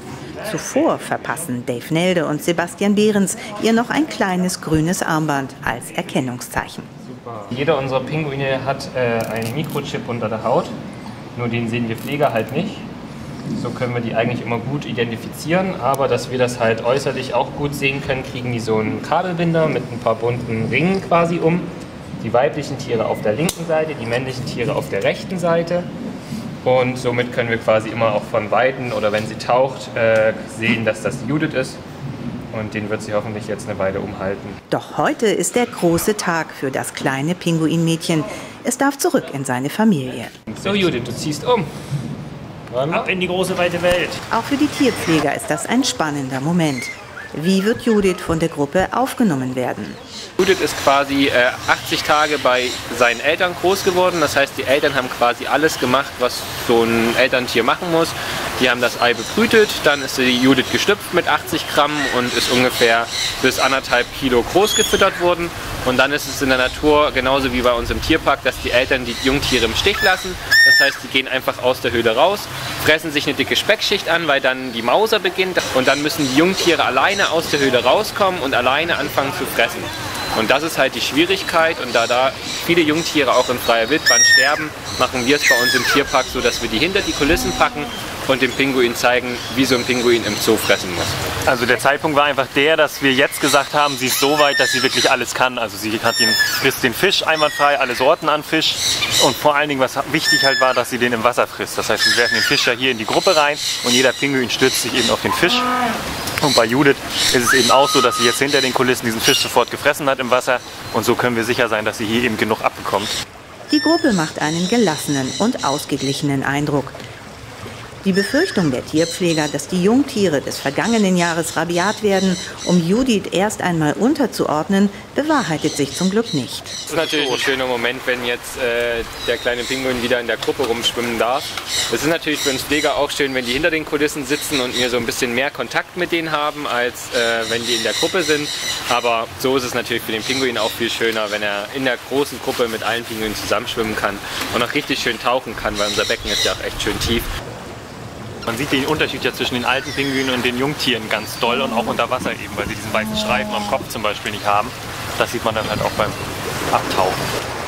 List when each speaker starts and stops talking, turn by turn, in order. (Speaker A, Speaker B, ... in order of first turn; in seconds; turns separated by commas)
Speaker A: 0.4-6.9, Speaker B: 7.0-10.7, Speaker B: 11.3-12.8, Speaker B: 13.5-25.9, Speaker B: 26.6-31.8, Speaker B: 32.5-34.6, Speaker A: 34.7-40.4, Speaker B: 40.5-41.7, Speaker C: 42.8-44.2, Speaker A: 44.3-50.0, Speaker B: 50.4-91.2, Speaker C: 91.5-105.7, Speaker C: 106.4-113.2, Speaker A: 113.7-117.0, Speaker A: 118.0-126.8, Speaker B: 126.9-147.3, Speaker C: 126.9-127.4, Speaker C: 148.5-157.2